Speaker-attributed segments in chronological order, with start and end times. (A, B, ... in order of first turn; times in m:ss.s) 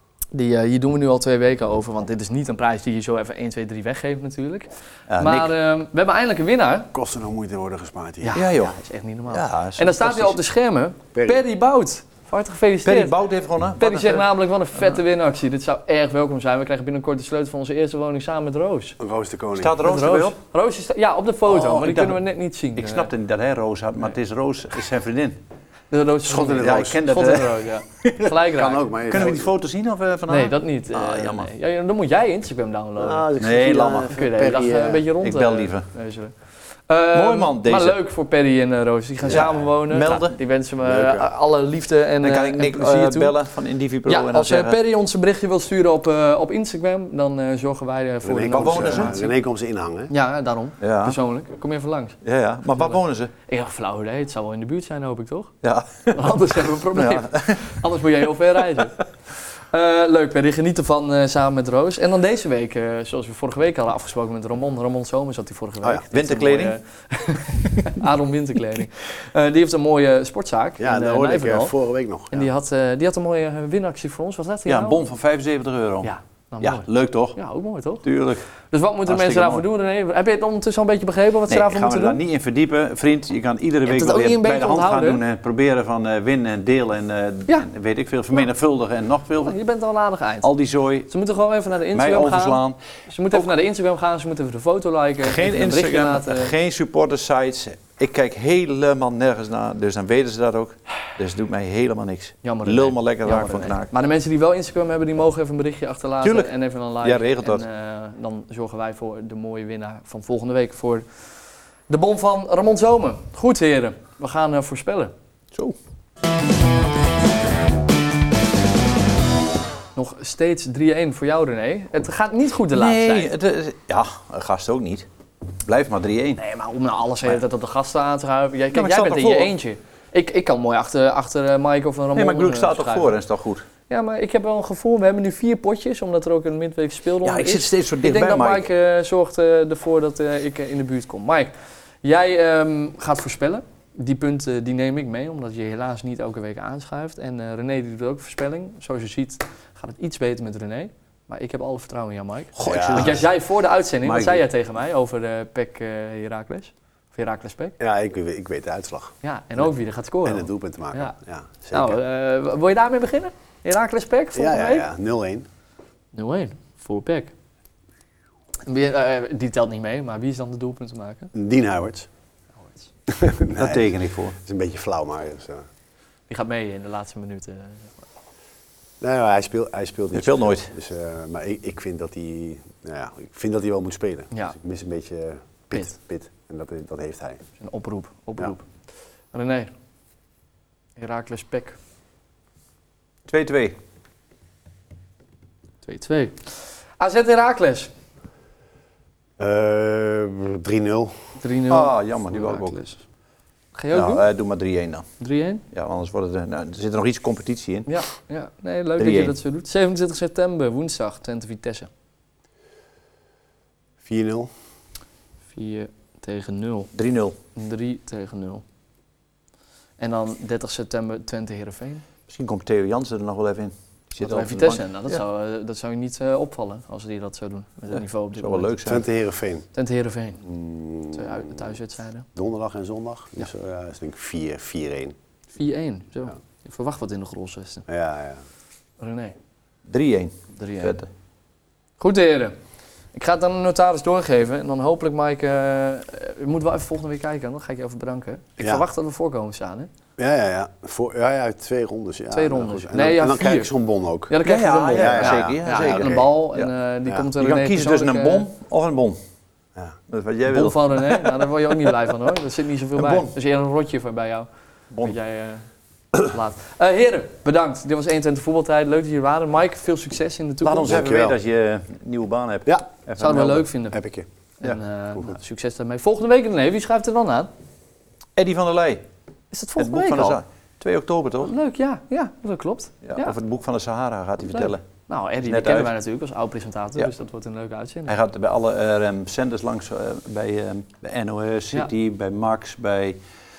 0:00.3-0:06.9 A
0:05.1-0:05.5 B
0:06.9-0:08.4 C
0:08.2-0:13.1 A
0:08.3-0:08.7 B
0:09.3-0:10.4 B
0:11.1-0:11.4 C
0:12.8-0:14.3 B
0:13.8-0:19.0 A
0:19.0-0:19.8 C
0:19.6-0:20.4 B
0:19.8-0:23.1 A
0:21.5-0:22.2 B
0:22.8-0:25.4 B
0:25.9-0:28.9 A
0:26.3-0:27.0 C
0:26.4-0:28.3 B
0:28.5-0:29.5 C
0:29.1-0:31.5 B
0:30.3-0:33.3 A
0:33.0-0:35.0 C
0:33.4-0:34.2 B
0:34.0-0:36.3 A
0:35.2-0:35.9 B
0:36.9-0:43.4 A
0:37.1-0:38.0 B
0:39.3-0:40.4 B
0:40.8-0:41.3 C
0:42.2-0:44.8 B
0:44.1-0:49.3 A
0:48.2-0:50.1 C
0:48.5-0:49.2 B
0:50.1-0:52.2 A
0:50.8-0:51.2 B
0:52.2-0:53.3 B
0:52.8-0:55.5 A
0:55.6-0:57.8 B
0:56.1-0:59.0 A
0:59.7-1:11.7 A
1:05.8-1:06.7 B
1:10.8-1:12.5 C
1:12.3-1:15.0 A
1:14.6-1:17.4 B
1:16.0-1:18.0 A
1:18.0-1:18.4 B
1:18.7-1:22.2 A
1:19.0-1:19.6 B
1:21.5-1:29.6 B
1:23.9-1:25.2 A
1:29.4-1:30.5 A
1:30.4-1:31.1 B
1:31.1-1:36.5 A
1:31.9-1:32.8 B
1:35.2-1:43.9 B
1:42.4-1:51.1 A
1:46.2-1:47.6 B
1:51.9-1:55.1 A
2:00.0-2:03.3 A
2:02.7-2:05.0 B
2:05.6-2:06.4 B
2:06.4-2:13.1 A
2:08.7-2:09.5 B
2:12.2-2:13.6 B
2:13.9-2:21.5 A
2:17.2-2:18.6 B
2:22.0-2:37.8 A
2:32.6-2:33.3 B
2:32.6-2:33.2 C
2:34.0-2:34.4 B
2:37.8-2:39.1 C
2:39.2-2:41.1 A
2:40.2-2:42.0 C
2:41.7-2:44.9 A
2:44.3-2:45.4 C
2:46.1-2:47.3 A
2:48.6-2:51.3 A
2:51.3-2:52.1 C
2:53.1-2:55.6 C
2:53.6-2:54.4 B
2:56.3-2:58.0 A
2:59.0-3:07.4 C
3:00.1-3:00.7 B
3:07.6-3:08.6 A
3:09.3-3:09.7 A
3:11.0-3:11.8 A
3:13.3-3:13.8 B
3:15.8-3:17.9 A
3:19.4-3:21.2 C
3:21.4-3:23.0 A
3:21.7-3:22.8 B
3:23.7-3:24.3 A
3:23.9-3:25.1 B
3:25.2-3:25.6 A
3:25.7-3:27.9 B
3:27.9-3:31.9 A
3:29.0-3:29.3 B
3:34.0-3:34.5 C
3:35.5-3:36.9 A
3:36.9-3:37.4 B
3:37.6-3:38.6 A
3:40.0-3:42.0 A
3:42.3-3:45.2 B
3:44.2-3:49.0 A
3:47.9-3:49.0 B
3:48.9-3:49.6 C
3:49.7-3:50.4 A
3:50.4-3:51.5 C
3:51.1-3:52.3 A
3:52.4-3:55.2 C
3:55.5-3:57.9 A
3:57.9-3:58.4 C
3:59.0-3:59.4 A
3:59.9-4:01.1 B
4:00.5-4:01.0 A
4:02.0-4:02.6 A
4:03.1-4:09.9 A
4:08.6-4:08.8 C
4:10.2-4:14.3 C
4:12.3-4:13.7 A
4:14.3-4:18.5 A
4:14.4-4:16.7 B
4:14.9-4:16.3 C
4:17.4-4:19.2 B
4:20.1-4:21.4 B
4:20.5-4:24.5 A
4:23.0-4:23.3 B
4:25.0-4:31.0 A
4:30.6-4:33.7 B
4:30.8-4:31.4 C
4:33.2-4:34.0 A
4:33.9-4:34.3 C
4:34.6-4:37.5 A
4:38.4-4:39.0 B
4:39.5-4:40.4 A
4:39.8-4:41.5 B
4:41.4-4:43.4 A
4:43.0-4:44.8 B
4:44.5-4:48.1 A
4:45.4-4:45.9 B
4:48.1-4:53.2 B